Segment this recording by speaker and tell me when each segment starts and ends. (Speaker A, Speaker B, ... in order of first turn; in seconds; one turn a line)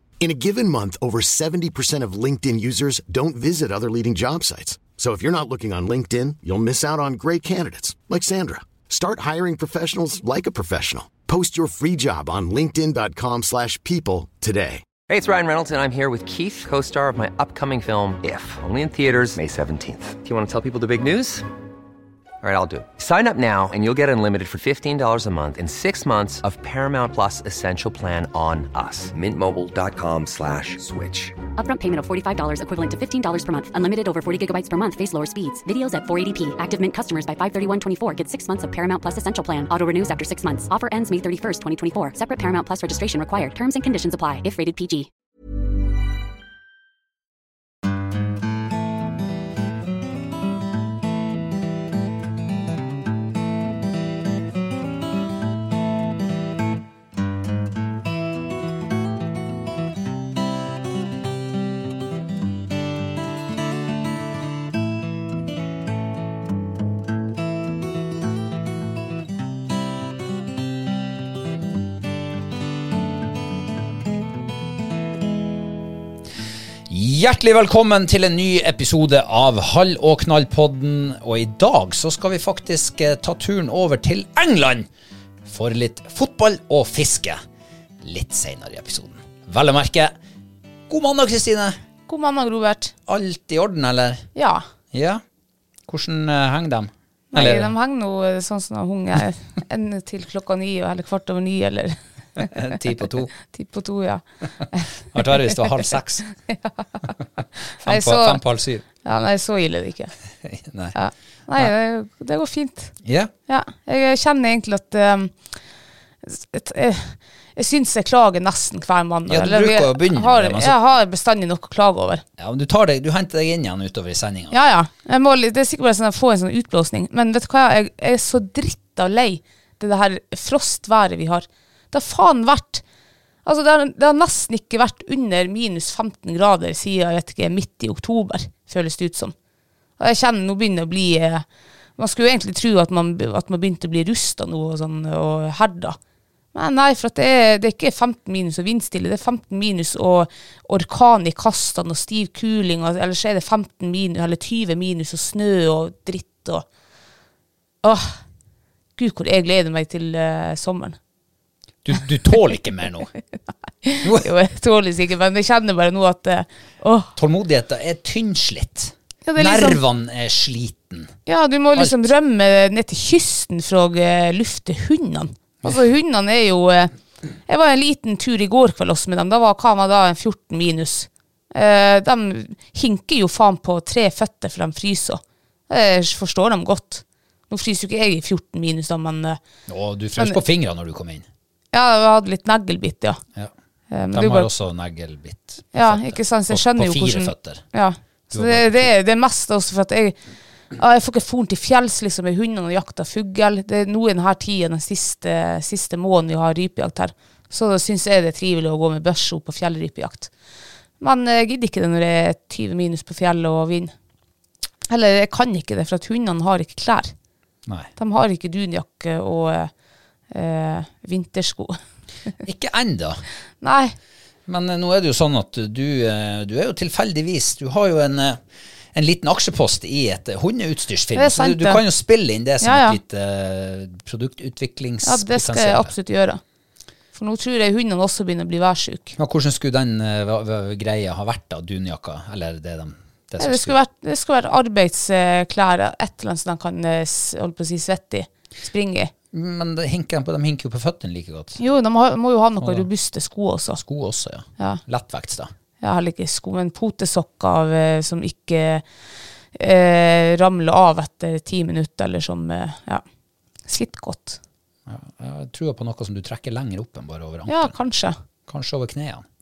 Speaker A: 0.2-14.8
Speaker B: 15.1-21.4
Speaker B: 22.4-31.4
Speaker C: 31.6-45.1
Speaker D: 76.9-84.9
Speaker D: 85.4-87.4
Speaker D: 88.0-90.1
Speaker D: 90.9-91.8
Speaker E: 92.1-92.9
Speaker D: 93.1-94.3
Speaker E: 94.3-94.6
Speaker D: 94.9-95.2
Speaker D: 95.8-97.7
Speaker E: 97.3-105.9
Speaker D: 102.4-103.3
Speaker D: 105.1-106.2
Speaker E: 106.5-107.1
Speaker D: 107.8-108.8
Speaker E: 107.8-108.4
Speaker E: 109.0-110.1
Speaker D: 110.4-111.0
Speaker E: 110.9-113.0
Speaker D: 113.0-113.3
Speaker E: 113.5-115.5
Speaker E: 116.2-122.2
Speaker D: 119.3-120.8
Speaker D: 122.4-124.5
Speaker E: 124.5-132.8
Speaker E: 133.4-139.3
Speaker E: 140.0-141.4
Speaker E: 142.0-146.0
Speaker E: 146.5-156.6
Speaker E: 157.8-158.2
Speaker E: 159.0-161.0
Speaker D: 161.8-163.1
Speaker E: 163.8-167.1
Speaker D: 164.0-164.3
Speaker D: 167.2-171.2
Speaker E: 169.2-169.8
Speaker E: 171.3-176.9
Speaker D: 171.7-172.0
Speaker E: 177.4-189.4
Speaker D: 189.7-191.3
Speaker E: 191.7-193.2
Speaker E: 193.9-194.5
Speaker D: 194.1-197.7
Speaker E: 195.7-210.3
Speaker D: 198.3-198.9
Speaker E: 211.0-213.9
Speaker E: 214.9-217.1
Speaker E: 217.9-219.7
Speaker E: 220.3-222.3
Speaker D: 222.4-223.2
Speaker E: 223.6-223.9
Speaker D: 224.5-228.4
Speaker D: 228.9-235.9
Speaker E: 231.1-231.8
Speaker E: 232.6-233.0
Speaker E: 235.0-236.4
Speaker E: 237.1-239.2
Speaker D: 239.2-243.8
Speaker E: 243.4-249.1
Speaker D: 249.3-251.6
Speaker E: 251.6-253.8
Speaker D: 252.6-252.9
Speaker D: 253.8-255.5
Speaker E: 255.8-258.9
Speaker E: 259.5-263.0
Speaker E: 263.7-264.4
Speaker D: 264.9-267.8
Speaker E: 267.5-268.1
Speaker D: 268.5-269.2